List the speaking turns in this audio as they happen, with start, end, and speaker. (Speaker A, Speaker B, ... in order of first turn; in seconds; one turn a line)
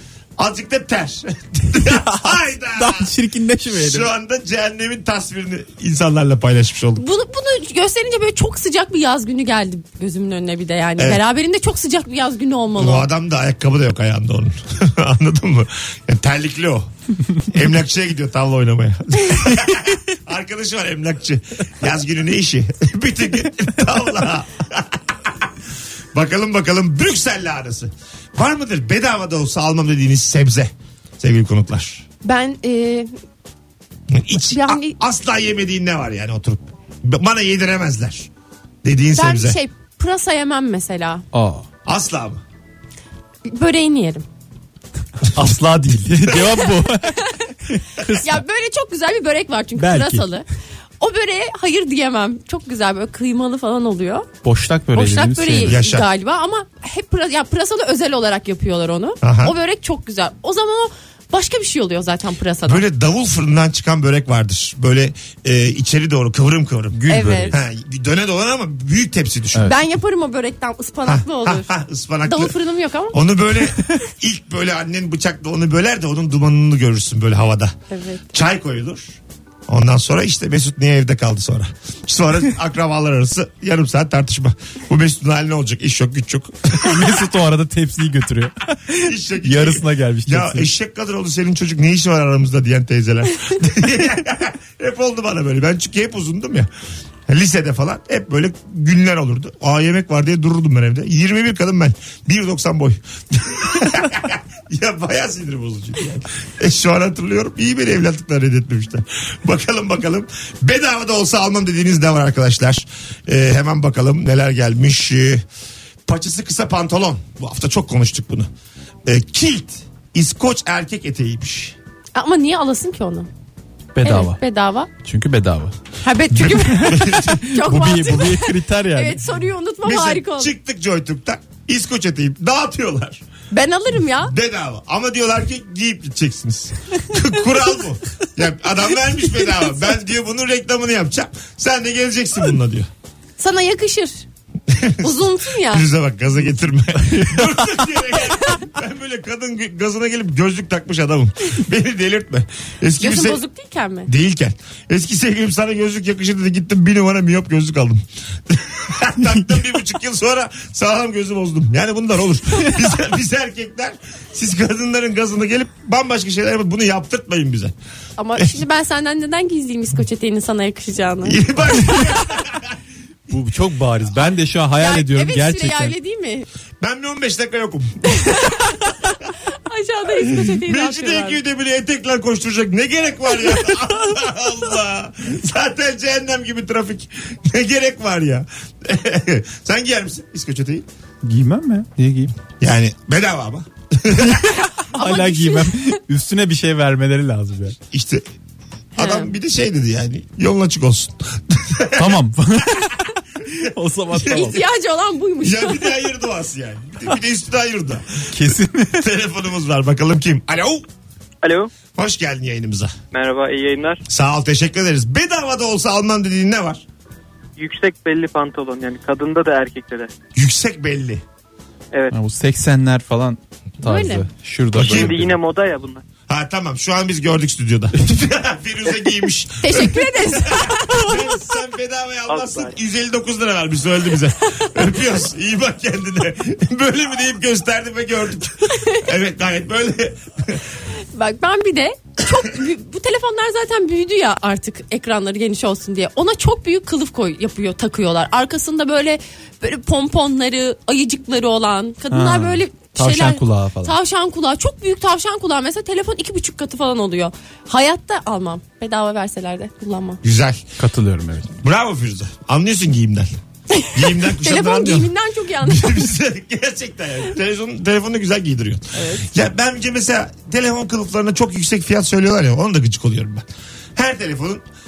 Speaker A: 0.4-3.1
Speaker B: 1.8-4.1
Speaker A: 3.7-7.0
Speaker C: 7.0-13.1
Speaker A: 12.8-16.9
Speaker A: 17.4-25.5
Speaker A: 26.1-32.0
Speaker C: 32.2-33.1
Speaker A: 34.1-38.3
Speaker C: 34.4-35.0
Speaker A: 38.8-39.6
Speaker C: 39.1-41.2
Speaker B: 41.3-41.6
Speaker A: 41.9-42.4
Speaker C: 43.5-44.2
Speaker B: 45.3-48.4
Speaker C: 47.1-47.5
Speaker C: 48.1-50.4
Speaker B: 49.8-50.2
Speaker C: 51.0-54.3
Speaker B: 54.4-55.8
Speaker C: 54.9-62.8
Speaker A: 55.6-56.1
Speaker A: 59.2-59.5
Speaker A: 62.6-69.7
Speaker B: 66.9-67.6
Speaker C: 67.1-67.5
Speaker C: 69.6-71.7
Speaker A: 71.0-72.5
Speaker C: 72.2-73.2
Speaker A: 73.1-77.7
Speaker C: 77.9-78.2
Speaker A: 78.3-87.2
Speaker B: 86.8-90.7
Speaker A: 88.9-96.7
Speaker A: 97.3-115.4
Speaker A: 116.1-118.5
Speaker A: 119.0-121.8
Speaker C: 122.1-123.3
Speaker B: 123.9-124.4
Speaker C: 124.0-124.9
Speaker B: 125.0-125.8
Speaker C: 126.0-130.5
Speaker B: 126.3-129.4
Speaker A: 126.3-127.4
Speaker A: 129.8-133.2
Speaker C: 133.5-134.3
Speaker A: 134.2-142.9
Speaker C: 143.4-144.2
Speaker A: 144.7-153.4
Speaker C: 145.0-145.9
Speaker C: 153.0-154.1
Speaker A: 154.1-167.7
Speaker C: 168.2-171.4
Speaker A: 171.2-172.8
Speaker B: 173.3-175.9
Speaker C: 174.8-176.5
Speaker A: 176.8-178.5
Speaker C: 178.1-178.9
Speaker C: 179.7-181.4
Speaker A: 180.2-190.8
Speaker B: 191.2-192.3
Speaker A: 192.6-194.4
Speaker B: 194.2-197.8
Speaker C: 194.9-195.9
Speaker A: 197.9-198.2
Speaker A: 198.9-202.2
Speaker C: 199.0-199.3
Speaker B: 201.9-204.6
Speaker A: 204.1-204.6
Speaker C: 204.3-205.9
Speaker A: 205.4-208.3
Speaker B: 208.3-209.1
Speaker A: 208.9-210.8
Speaker D: 211.4-211.7
Speaker A: 211.9-212.9
Speaker D: 213.1-214.0
Speaker A: 214.1-216.8
Speaker D: 217.6-220.1
Speaker A: 220.3-221.2
Speaker B: 222.1-225.4
Speaker C: 223.8-224.3
Speaker A: 224.7-225.3
Speaker D: 224.8-226.0
Speaker A: 226.3-240.6
Speaker C: 229.6-231.1
Speaker D: 232.3-232.7
Speaker C: 238.7-239.0
Speaker C: 241.1-260.2
Speaker B: 252.1-253.9
Speaker A: 260.2-260.7
Speaker B: 260.8-261.5
Speaker A: 261.6-263.3
Speaker C: 263.7-266.1
Speaker A: 263.9-274.6
Speaker C: 268.9-269.3